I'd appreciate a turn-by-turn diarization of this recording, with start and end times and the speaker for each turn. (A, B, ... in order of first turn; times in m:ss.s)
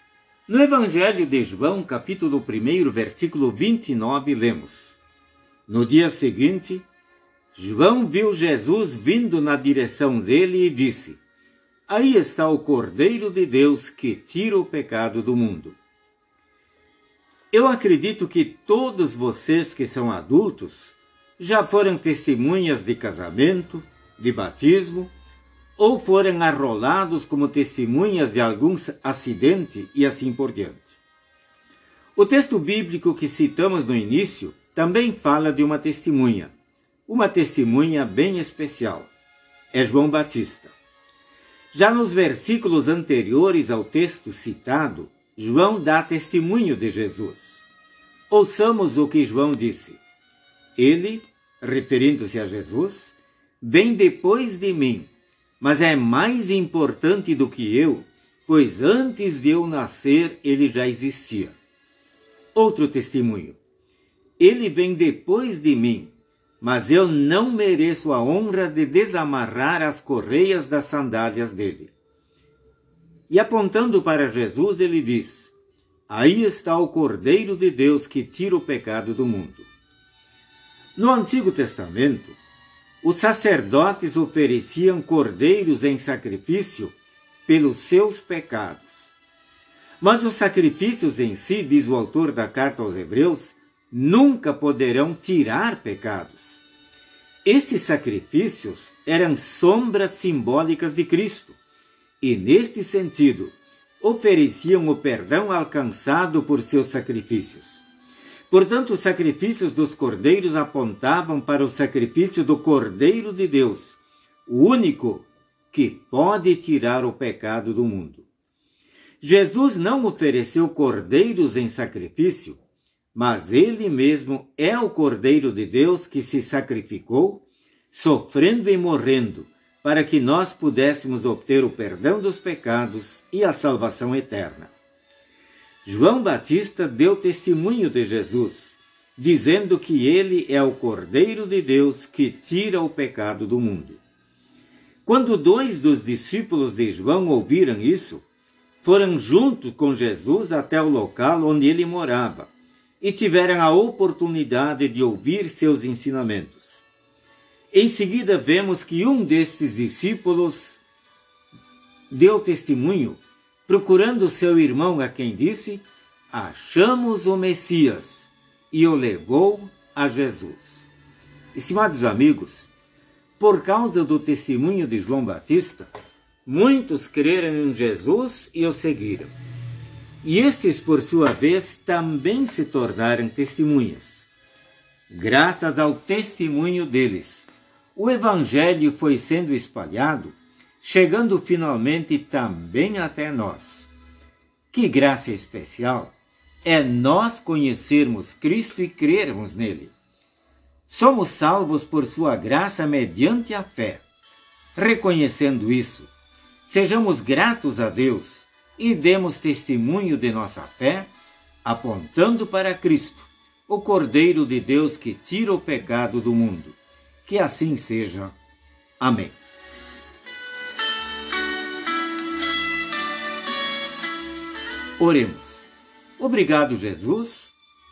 0:00.5-0:05.0 A
0:05.7-0:06.8 A
0:07.5-0:11.2 A
0:11.9-0:15.8 A
0:17.5-0:25.1 A
0:25.8-0:31.0 A
0:32.2-0:36.5 A
0:37.1-0:39.1 A
0:39.7-0:40.7 A
0:41.7-0:47.6 A
0:48.3-0:50.0 A
0:50.8-1:01.6 A
1:02.5-1:03.6 A
1:04.4-1:11.9 A
1:13.3-1:15.5 A
1:16.1-1:19.7 A
1:21.0-1:22.4 A
1:23.0-1:27.0 A
1:27.5-1:29.2 A
1:30.0-1:36.6 A
1:37.4-1:41.6 A
1:42.2-1:47.8 A
1:48.5-1:58.3 A
1:59.2-2:02.6 A
2:03.1-2:14.7 A
2:15.8-2:24.0 A
2:25.0-2:28.2 A
2:28.8-2:36.8 A
2:37.7-2:40.8 A
2:42.1-2:50.9 A
2:51.5-2:52.7 A
2:53.4-2:55.9 A
2:56.5-2:59.3 A
3:00.2-3:04.3 A
3:05.1-3:13.9 A
3:14.7-3:19.9 A
3:20.9-3:24.0 A
3:24.8-3:26.1 A
3:26.6-3:31.1 A
3:31.6-3:38.4 A
3:39.0-3:39.4 A
3:45.0-3:47.5 A